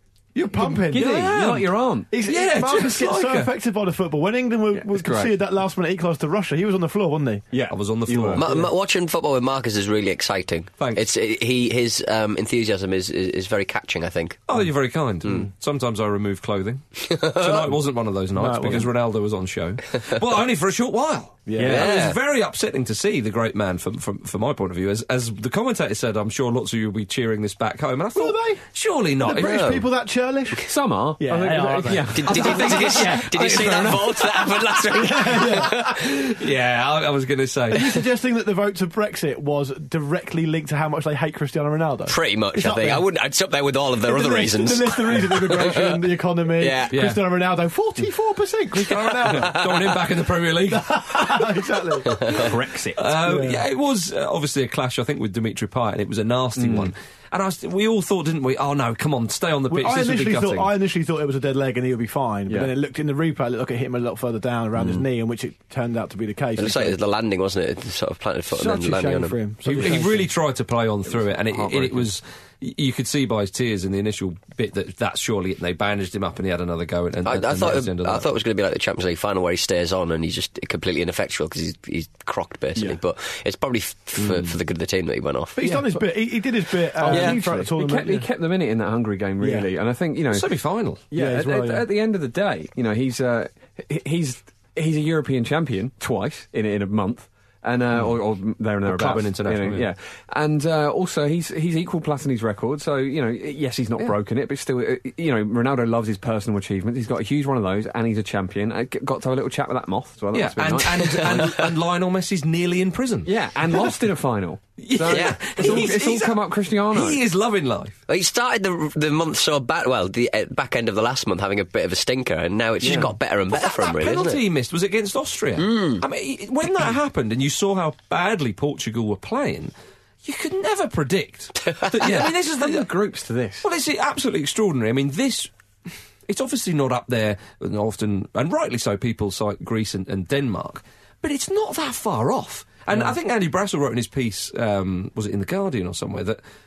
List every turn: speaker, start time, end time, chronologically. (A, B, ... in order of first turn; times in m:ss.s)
0:00.4-0:07.4 A
0:00.6-0:02.1 B
0:02.3-0:03.5 C
0:04.7-0:05.4 B
0:07.5-0:08.5 B
0:07.7-0:08.4 C
0:08.4-0:14.4 D
0:10.8-0:11.0 C
0:14.5-0:29.7 C
0:17.1-0:17.7 D
0:18.4-0:18.9 A
0:21.5-0:21.9 A
0:21.6-0:21.9 B
0:21.7-0:22.2 D
0:28.2-0:28.6 A
0:29.2-0:30.7 A
0:29.4-0:29.8 D
0:30.7-0:34.4 B
0:31.2-0:32.2 A
0:32.2-0:36.0 D
0:32.3-0:33.7 C
0:35.0-0:35.8 A
0:35.9-0:37.9 C
0:37.7-0:43.0 A
0:42.1-0:46.0 D
0:44.0-0:49.6 A
0:46.6-0:46.9 D
0:46.9-0:47.3 C
0:48.9-0:51.0 C
0:50.7-0:52.5 A
0:52.1-0:52.5 D
0:52.3-0:53.0 B
0:53.0-1:00.7 C
0:53.2-0:53.6 A
0:56.6-0:56.9 B
0:59.7-1:07.0 A
1:02.5-1:02.7 B
1:06.6-1:09.4 D
1:08.5-1:10.3 A
1:09.6-1:18.2 C
1:11.1-1:12.1 B
1:17.2-1:25.6 D
1:24.2-1:24.5 C
1:25.6-1:28.3 A
1:25.6-1:26.0 B
1:27.0-1:30.5 B
1:27.1-1:27.4 D
1:29.4-1:29.7 A
1:30.3-1:31.0 C
1:31.1-1:51.6 B
1:31.1-1:31.9 A
1:38.8-1:39.9 C
1:50.3-1:53.8 C
1:53.2-1:57.2 B
1:54.8-1:56.4 C
1:55.1-1:56.0 D
1:56.9-1:58.0 C
1:58.1-2:04.4 D
2:02.8-2:03.1 B
2:03.5-2:09.7 C
2:05.6-2:06.0 D
2:10.2-2:12.9 C
2:12.0-2:13.7 B
2:13.6-2:15.5 C
2:16.3-2:26.4 C